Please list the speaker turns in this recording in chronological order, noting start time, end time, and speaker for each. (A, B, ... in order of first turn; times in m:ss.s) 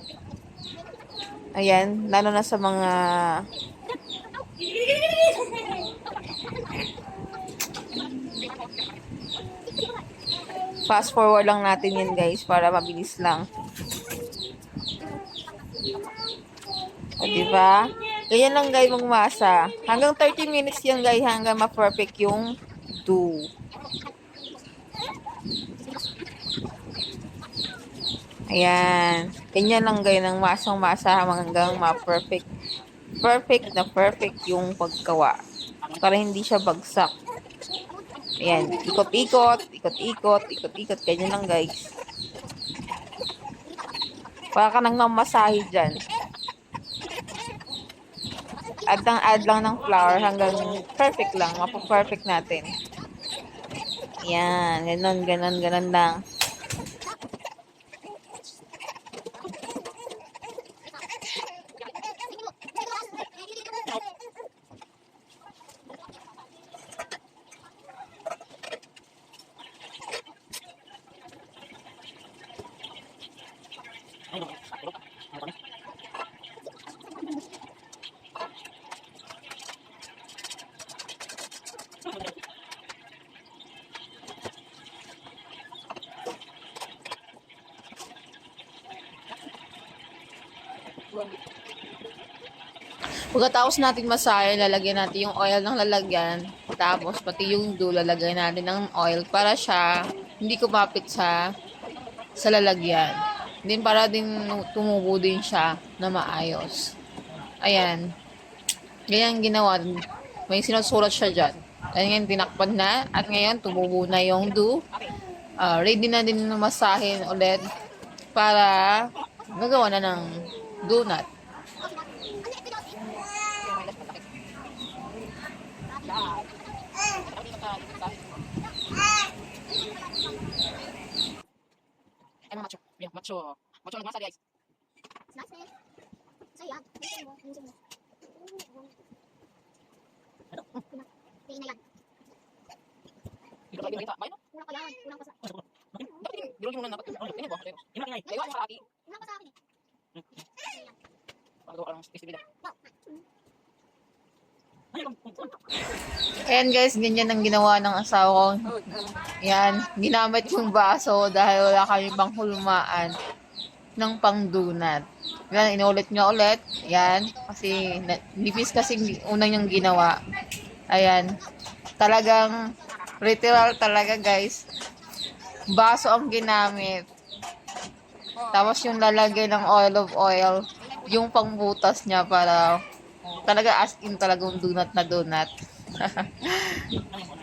0:01.5-0:03.4 A
0:10.9-0:13.4 A
0:17.2-0:23.5 A
0:28.5-0:32.5 A
0:33.2-0:35.4 A
0:35.9-0:37.1 A
0:38.4-0:41.9 A
0:44.5-0:46.0 A
0:48.9-0:52.7 A
0:54.2-0:56.2 A
1:02.1-1:04.0 B
1:33.3-1:39.9 A
1:40.4-1:41.4 A
1:42.3-1:46.9 A
1:47.6-1:48.1 A
1:49.1-1:49.9 A
1:50.5-1:54.8 A
1:55.6-1:57.6 A
1:58.3-2:01.3 A
2:01.8-2:03.1 B
2:03.6-2:04.2 C
2:05.9-2:06.2 B
2:06.1-2:06.4 C
2:07.3-2:08.3 C
2:09.7-2:10.4 B
2:12.5-2:14.4 C
2:15.3-2:15.7 B
2:16.6-2:17.7 B
2:20.9-2:21.8 B
2:23.7-2:24.4 C
2:24.5-2:25.4 B
2:26.2-2:28.8 C
2:29.0-2:29.5 B
2:30.6-2:30.9 B
2:31.7-2:32.4 C
2:32.6-2:33.2 B
2:35.0-2:35.5 C
2:36.4-2:38.8 A
2:38.7-2:39.0 C
2:39.4-2:43.1 A
2:44.0-2:50.2 A
2:50.9-2:51.4 A
2:52.0-2:52.6 A
2:53.2-2:54.6 A
2:55.7-2:57.0 A
2:58.5-3:02.8 A
3:03.3-3:07.0 A